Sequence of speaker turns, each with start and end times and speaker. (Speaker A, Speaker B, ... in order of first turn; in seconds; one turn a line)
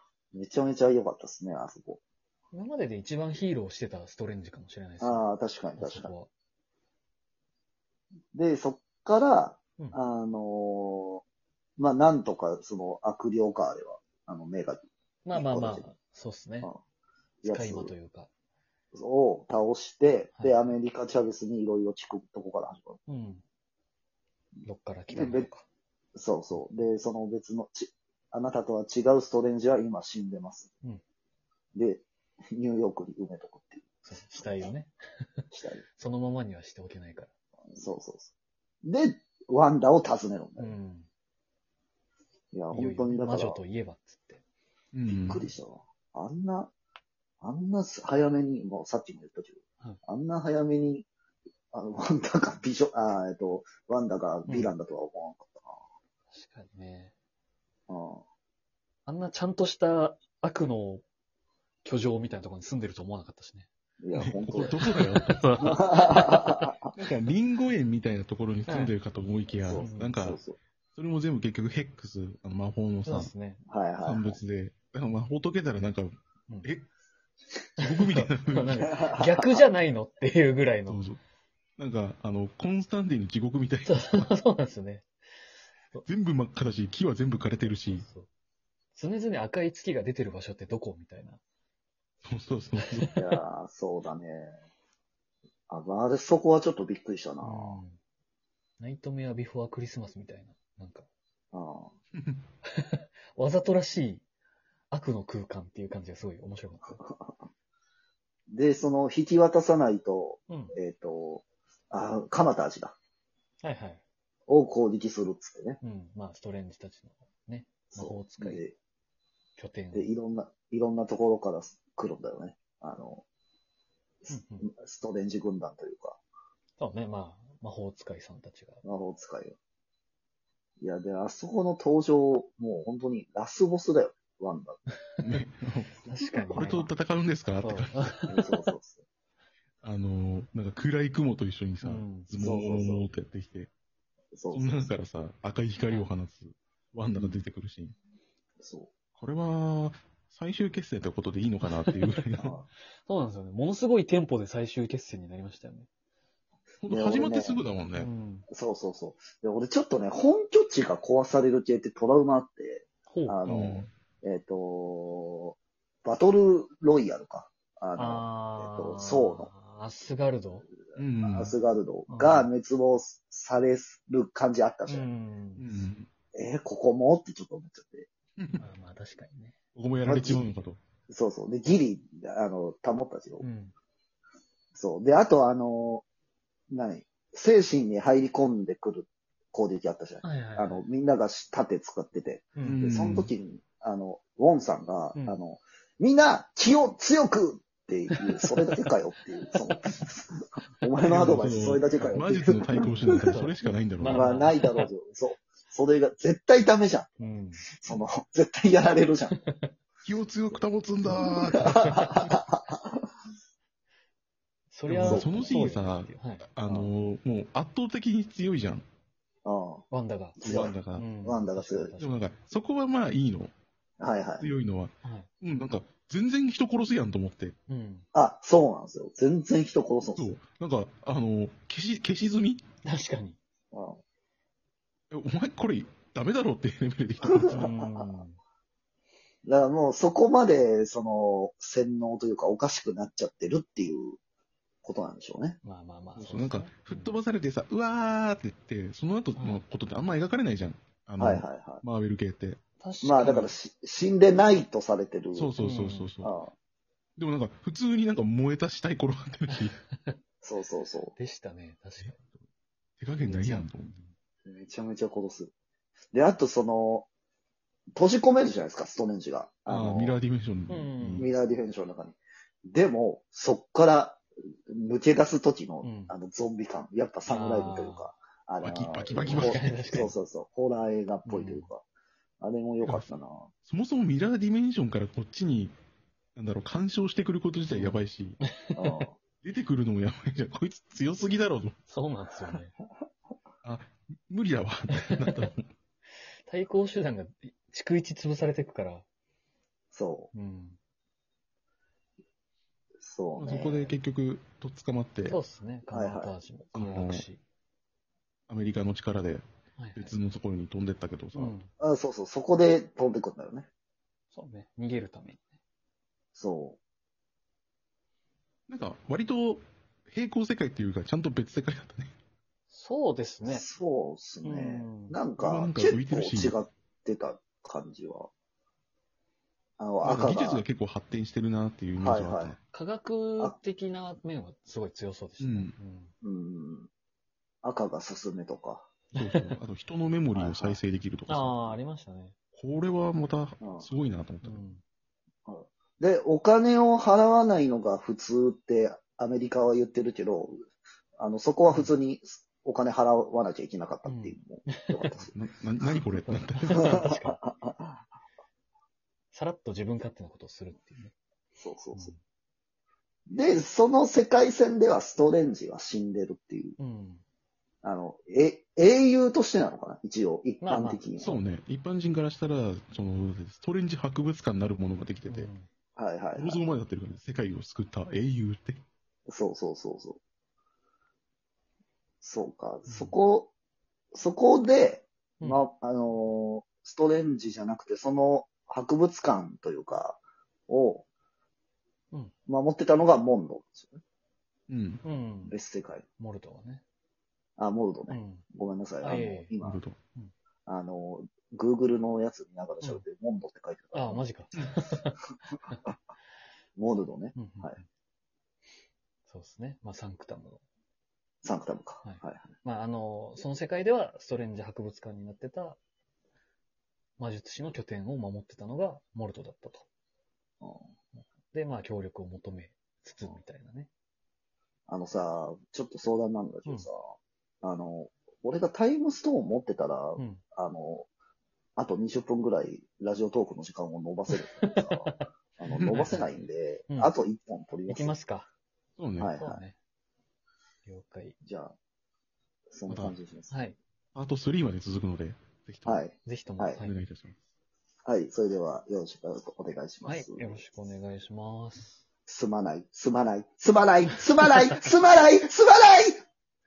Speaker A: 0.3-2.0
Speaker B: 2.5-5.2
Speaker A: 5.0-6.1
Speaker B: 5.8-6.3
Speaker A: 8.3-11.2
Speaker A: 11.8-15.8
Speaker B: 15.2-16.7
Speaker A: 17.4-17.9
Speaker B: 17.4-18.3
Speaker A: 18.9-23.0
Speaker B: 20.4-20.7
Speaker B: 23.1-23.4
Speaker B: 24.6-25.6
Speaker A: 25.1-25.5
Speaker A: 26.1-30.7
Speaker A: 31.7-33.9
Speaker B: 34.0-35.4
Speaker A: 35.5-35.8
Speaker B: 35.9-37.3
Speaker A: 37.7-38.3
Speaker A: 38.8-40.8
Speaker B: 40.6-41.1
Speaker A: 42.5-43.6
Speaker B: 42.7-44.4
Speaker C: 44.9-45.5
Speaker A: 45.1-46.7
Speaker A: 47.4-51.1
Speaker A: 51.7-55.8
Speaker B: 54.5-54.7
Speaker B: 56.3-57.1
Speaker A: 57.9-58.2
Speaker B: 59.0-61.0
Speaker B: 61.8-63.7
Speaker A: 64.0-64.8
Speaker C: 64.1-65.6
Speaker B: 64.6-66.7
Speaker A: 65.6-66.9
Speaker C: 67.0-70.4
Speaker B: 68.7-68.9
Speaker A: 69.6-70.6
Speaker B: 69.8-70.2
Speaker C: 70.9-73.3
Speaker B: 73.0-73.6
Speaker A: 73.7-74.4
Speaker C: 74.0-76.1
Speaker C: 76.6-76.9
Speaker C: 77.8-78.9
Speaker B: 77.8-81.1
Speaker A: 78.8-79.6
Speaker C: 80.9-81.2
Speaker C: 81.8-84.3
Speaker B: 83.8-85.1
Speaker C: 86.0-88.0
Speaker B: 87.5-88.3
Speaker B: 88.9-91.4
Speaker C: 92.2-93.1
Speaker B: 92.8-93.2
Speaker A: 93.2-94.6
Speaker A: 95.7-97.8
Speaker B: 97.4-98.0
Speaker B: 98.8-101.1
Speaker A: 101.5-101.9
Speaker B: 102.7-104.2
Speaker B: 104.9-107.0
Speaker A: 107.0-107.5
Speaker A: 108.5-113.0
Speaker B: 110.5-110.7
Speaker B: 113.6-114.0
Speaker A: 114.5-115.8
Speaker B: 115.8-118.6
Speaker A: 117.9-118.8
Speaker B: 119.6-120.1
Speaker A: 119.9-123.2
Speaker A: 124.2-126.2
Speaker B: 124.3-124.7
Speaker B: 126.8-128.8
Speaker A: 128.8-129.6
Speaker A: 130.8-134.8
Speaker C: 135.2-135.9
Speaker B: 136.0-136.9
Speaker C: 136.5-138.3
Speaker B: 137.6-138.5
Speaker A: 138.3-139.0
Speaker C: 139.8-143.7
Speaker B: 141.8-142.3
Speaker A: 142.4-143.1
Speaker A: 144.3-144.9
Speaker C: 144.5-147.9
Speaker B: 145.8-146.1
Speaker A: 147.1-147.4
Speaker A: 148.6-148.9
Speaker C: 149.2-152.6
Speaker B: 151.8-152.1
Speaker A: 152.4-152.7
Speaker B: 153.0-155.9
Speaker C: 156.8-158.1
Speaker A: 156.9-157.6
Speaker B: 157.9-158.4
Speaker A: 158.5-169.5
Speaker B: 163.1-163.4
Speaker C: 163.4-163.9
Speaker B: 168.0-170.7
Speaker C: 170.9-171.5
Speaker A: 171.2-175.1
Speaker B: 172.1-172.5
Speaker B: 174.9-175.8
Speaker C: 175.6-176.1
Speaker A: 176.3-178.1
Speaker C: 178.4-178.6
Speaker B: 178.6-179.6
Speaker C: 179.7-180.8
Speaker A: 180.1-180.4
Speaker A: 181.1-183.4
Speaker B: 183.4-183.7
Speaker A: 184.7-186.0
Speaker A: 186.7-203.2
Speaker B: 190.2-190.8
Speaker B: 192.6-192.8
Speaker C: 192.6-193.3
Speaker B: 198.2-198.5
Speaker B: 199.7-200.0
Speaker C: 201.1-204.3
Speaker B: 202.8-204.9
Speaker A: 204.1-207.1
Speaker B: 207.2-207.7
Speaker A: 207.7-209.3
Speaker B: 209.4-209.7
Speaker C: 210.0-212.3
Speaker A: 211.1-213.0
Speaker B: 211.6-212.1
Speaker B: 214.7-216.5
Speaker C: 214.9-218.8
Speaker A: 215.0-215.6
Speaker A: 216.6-216.9
Speaker A: 219.4-219.8
Speaker B: 219.9-222.2
Speaker A: 220.4-221.9
Speaker C: 220.4-221.1
Speaker C: 222.0-223.5
Speaker A: 224.0-224.5
Speaker C: 224.4-227.5
Speaker B: 225.0-225.3
Speaker B: 227.7-228.1
Speaker A: 228.1-230.4
Speaker C: 230.2-232.6
Speaker B: 232.8-233.4
Speaker A: 233.7-234.0
Speaker C: 235.1-237.7
Speaker A: 237.2-238.2
Speaker B: 237.5-238.4
Speaker A: 239.4-244.2
Speaker A: 244.8-245.6
Speaker B: 245.6-247.1
Speaker C: 246.2-252.6
Speaker B: 249.3-249.6
Speaker A: 251.2-251.8
Speaker B: 252.8-253.5
Speaker A: 253.0-255.5
Speaker C: 255.3-256.3
Speaker B: 255.6-256.1
Speaker A: 256.2-256.5
Speaker C: 257.2-259.8
Speaker A: 260.4-261.1
Speaker B: 261.1-262.2
Speaker C: 263.0-263.9
Speaker B: 263.2-264.1
Speaker A: 263.3-263.6
Speaker A: 264.4-265.5
Speaker A: 266.1-267.1
Speaker A: 267.9-270.2
Speaker C: 269.7-271.3
Speaker B: 270.7-271.3
Speaker A: 271.2-281.8
Speaker B: 275.8-276.1
Speaker B: 277.3-278.1
Speaker C: 278.6-280.1
Speaker B: 279.1-280.1
Speaker B: 281.2-281.7
Speaker A: 282.4-283.5
Speaker C: 282.8-283.1
Speaker C: 283.6-285.7
Speaker C: 286.4-288.4
Speaker B: 287.7-289.0
Speaker A: 288.7-289.1
Speaker C: 289.4-291.7
Speaker B: 291.9-292.7
Speaker C: 293.6-295.7
Speaker B: 294.9-295.5
Speaker B: 296.5-299.0
Speaker A: 299.9-300.3
Speaker B: 300.3-300.8
Speaker A: 303.0-303.9
Speaker C: 303.4-305.4
Speaker B: 305.2-307.4
Speaker A: 305.9-306.3
Speaker C: 306.7-307.2
Speaker C: 308.5-309.4
Speaker B: 309.8-310.1
Speaker C: 309.9-311.6
Speaker B: 311.3-311.7
Speaker A: 311.8-313.7
Speaker B: 314.3-315.5
Speaker A: 316.3-316.8
Speaker C: 318.7-322.1
Speaker B: 322.7-323.6
Speaker A: 323.4-328.3
Speaker B: 324.4-325.2
Speaker C: 325.4-326.6
Speaker A: 329.8-330.6
Speaker C: 330.0-332.6
Speaker A: 332.0-332.6
Speaker B: 332.7-336.1
Speaker C: 335.4-335.7
Speaker A: 336.2-336.9
Speaker A: 337.6-338.9
Speaker B: 339.1-339.5
Speaker C: 339.1-341.8
Speaker A: 340.3-340.8
Speaker B: 341.3-342.3
Speaker C: 342.5-344.6
Speaker A: 343.6-343.9
Speaker B: 344.4-344.8
Speaker A: 345.4-355.3
Speaker B: 354.0-355.2
Speaker C: 355.1-357.1
Speaker B: 356.1-357.4
Speaker A: 356.8-358.0
Speaker B: 359.3-361.1
Speaker A: 361.6-362.1
Speaker A: 363.3-366.8
Speaker B: 366.8-367.2
Speaker A: 367.8-371.4
Speaker B: 370.6-371.0
Speaker C: 371.2-375.5
Speaker B: 375.3-375.7
Speaker A: 376.0-376.6
Speaker C: 376.4-378.8
Speaker A: 379.3-380.2
Speaker A: 382.2-383.5
Speaker B: 382.9-383.2
Speaker A: 384.1-391.0
Speaker A: 392.5-394.0
Speaker C: 394.7-395.0
Speaker B: 395.0-395.6
Speaker A: 395.5-396.1
Speaker B: 396.2-396.8
Speaker A: 397.6-399.8
Speaker B: 398.1-398.4
Speaker B: 399.0-399.5
Speaker C: 399.6-400.0
Speaker A: 400.7-404.2
Speaker B: 403.9-405.9
Speaker A: 406.8-407.8
Speaker B: 407.3-407.9
Speaker B: 409.3-410.6
Speaker A: 411.4-412.5
Speaker B: 412.0-415.8
Speaker B: 417.2-419.9
Speaker A: 420.6-420.9
Speaker B: 421.2-423.9
Speaker A: 424.9-427.0
Speaker A: 427.6-431.1
Speaker B: 430.2-430.4
Speaker A: 431.8-438.1
Speaker B: 434.3-437.1
Speaker B: 437.9-438.5
Speaker C: 439.0-439.3
Speaker A: 439.2-439.6
Speaker B: 439.4-439.8
Speaker B: 440.8-441.4
Speaker A: 441.4-441.7
Speaker A: 442.7-443.5
Speaker C: 442.9-443.1
Speaker B: 443.5-443.8
Speaker C: 444.1-446.0
Speaker A: 445.9-446.8
Speaker B: 446.2-446.9
Speaker C: 446.8-447.4
Speaker A: 448.1-450.6
Speaker B: 450.0-452.0
Speaker A: 452.3-456.1